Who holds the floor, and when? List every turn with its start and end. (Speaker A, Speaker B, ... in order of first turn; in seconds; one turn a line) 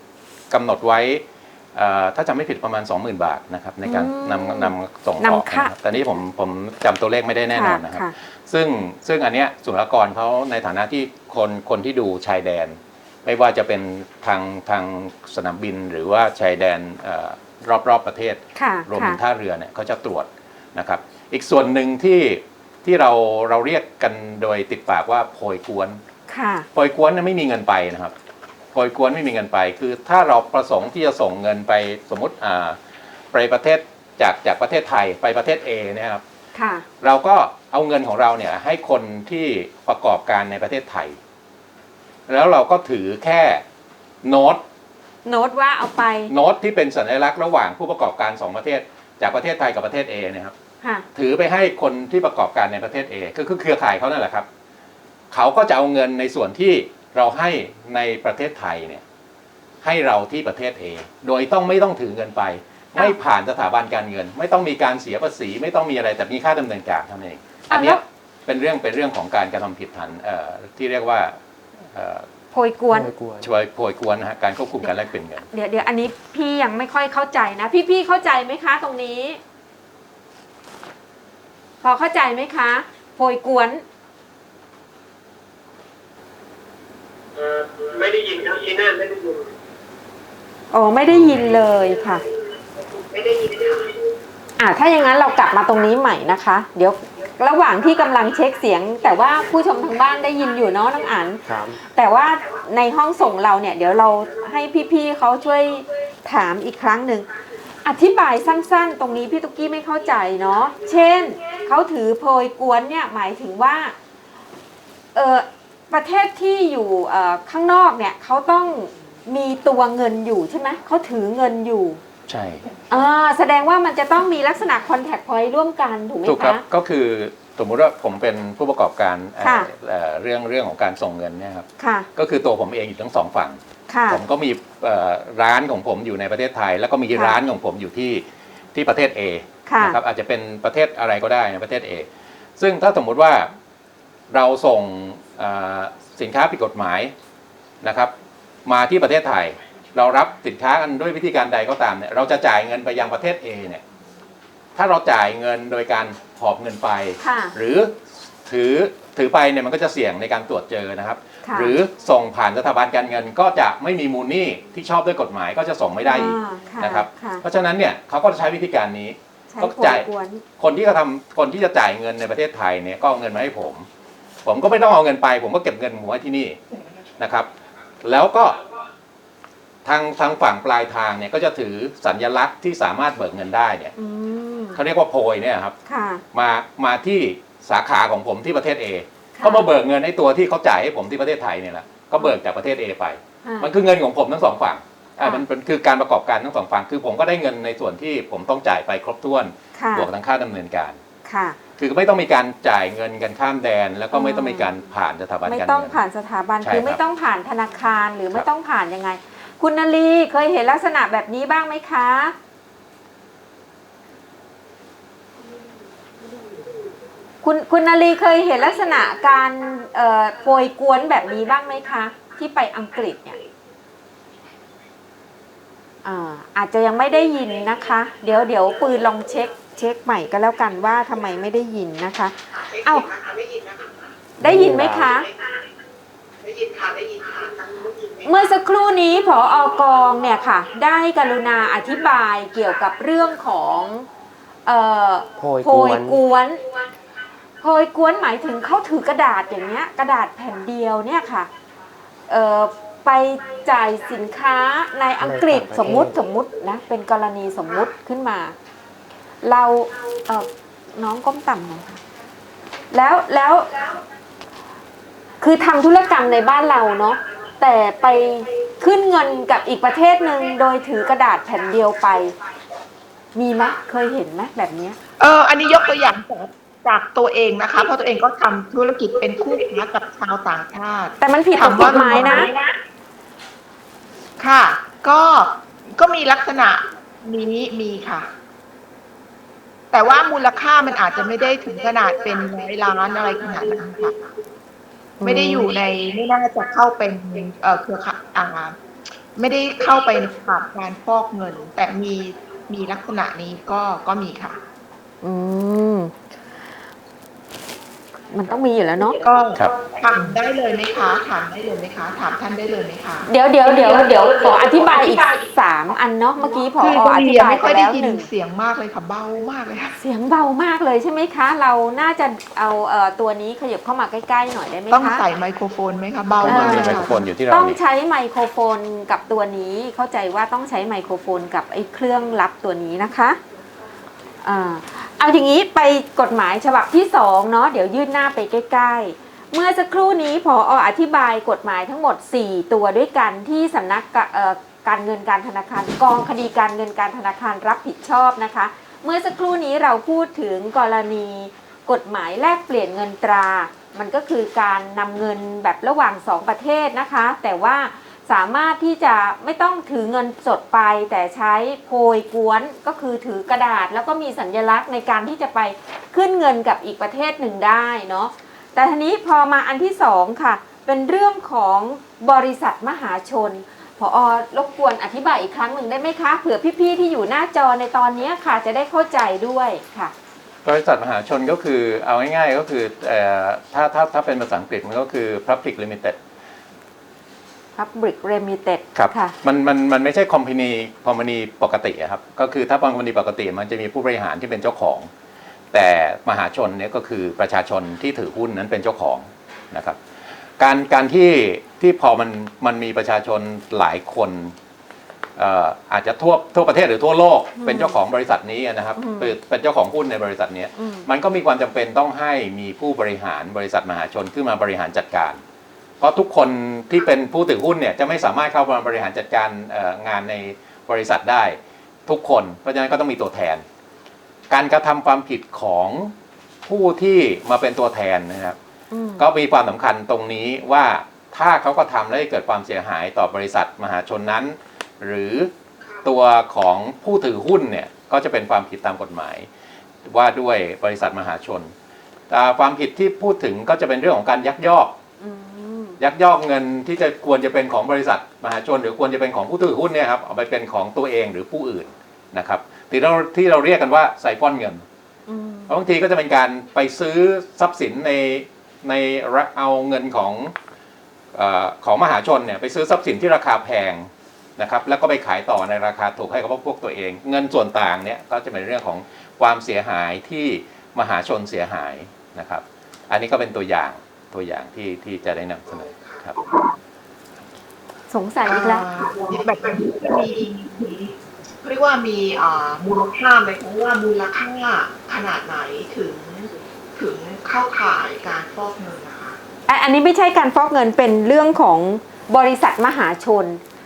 Speaker A: 0.5-26.0
Speaker B: 3.8-6.0
Speaker B: 7.5-8.1
Speaker B: 18.6-19.2
Speaker B: 26.3-26.7
Speaker A: 26.7-28.1
Speaker A: 28.7-32.8
Speaker A: 33.3-36.2
Speaker B: 36.5-36.9
Speaker A: 37.0-41.2
Speaker A: 42.3-43.6
Speaker A: 44.2-44.6
Speaker B: 45.2-46.3
Speaker A: 46.3-50.5
Speaker A: 51.1-54.5
Speaker A: 55.3-59.0
Speaker A: 59.8-71.4
Speaker B: 67.7-68.0
Speaker A: 71.9-72.3
Speaker B: 72.5-73.1
Speaker C: 72.9-73.5
Speaker A: 73.4-75.4
Speaker B: 75.5-79.4
Speaker B: 81.8-83.8
Speaker D: 87.4-89.5
Speaker B: 90.7-92.2
Speaker E: 93.1-93.9
Speaker B: 94.6-107.3
Speaker C: 101.4-101.8
Speaker B: 107.8-113.9
Speaker B: 115.1-122.0
Speaker A: 122.3-122.7
Speaker B: 122.9-126.6
Speaker A: 126.2-138.2
Speaker B: 129.4-129.7
Speaker B: 131.8-132.1
Speaker B: 133.9-134.2
Speaker A: 138.7-142.1
Speaker B: 139.7-140.0
Speaker A: 142.6-143.5
Speaker A: 144.3-147.1
Speaker A: 147.8-148.1
Speaker A: 148.7-153.8
Speaker A: 154.8-170.0
Speaker B: 157.2-157.5
Speaker B: 161.4-161.8
Speaker B: 166.1-167.4
Speaker B: 169.5-170.4
Speaker A: 170.6-173.9
Speaker A: 174.4-176.6
Speaker A: 177.2-177.5
Speaker A: 178.0-178.6
Speaker A: 179.8-183.9
Speaker B: 184.0-184.8
Speaker A: 184.7-185.7
Speaker B: 185.8-186.2
Speaker A: 186.3-201.0
Speaker B: 189.3-189.7
Speaker B: 193.4-193.7
Speaker B: 199.7-200.1
Speaker B: 201.2-201.6
Speaker A: 201.8-206.0
Speaker B: 204.1-204.7
Speaker B: 205.4-212.3
Speaker A: 206.6-207.0
Speaker B: 217.4-223.4
Speaker B: 226.0-233.1
Speaker E: 233.1-233.9
Speaker C: 234.4-235.1
Speaker B: 234.4-235.3
Speaker E: 236.4-238.2
Speaker B: 238.2-244.1
Speaker B: 244.7-246.6
Speaker C: 245.4-246.2
Speaker B: 247.6-251.5
Speaker B: 252.3-258.6
Speaker C: 255.2-256.1
Speaker B: 259.4-262.0
Speaker B: 262.9-263.9
Speaker B: 265.4-272.4
Speaker B: 273.3-275.0
Speaker E: 275.2-282.5
Speaker B: 281.2-282.6
Speaker E: 284.4-288.3
Speaker E: 289.9-294.3
Speaker B: 295.2-295.7
Speaker E: 295.2-298.8
Speaker E: 299.4-304.6
Speaker B: 305.2-306.1
Speaker B: 308.3-309.2
Speaker E: 309.2-313.3
Speaker B: 313.2-318.3
Speaker E: 316.8-319.9
Speaker B: 320.0-325.2
Speaker E: 324.9-327.2
Speaker A: 326.4-327.8
Speaker B: 326.4-333.4
Speaker B: 334.4-380.1
Speaker A: 380.6-386.2
Speaker B: 387.8-389.3
Speaker A: 388.9-395.1
Speaker A: 395.7-400.0
Speaker A: 400.6-404.5
Speaker A: 405.4-415.4
Speaker B: 407.6-408.0
Speaker B: 409.0-409.3
Speaker B: 410.8-411.1
Speaker A: 416.0-423.6
Speaker A: 424.5-426.1
Speaker A: 426.6-428.6
Speaker B: 428.9-429.2
Speaker A: 429.2-435.5
Speaker A: 436.0-439.5
Speaker A: 440.0-441.7
Speaker A: 442.3-444.9
Speaker B: 445.2-446.0
Speaker A: 446.0-454.8
Speaker B: 455.3-455.7
Speaker A: 455.7-460.5
Speaker A: 461.3-476.4
Speaker B: 478.1-478.9
Speaker E: 478.4-481.1
Speaker E: 481.6-489.4
Speaker B: 489.7-493.6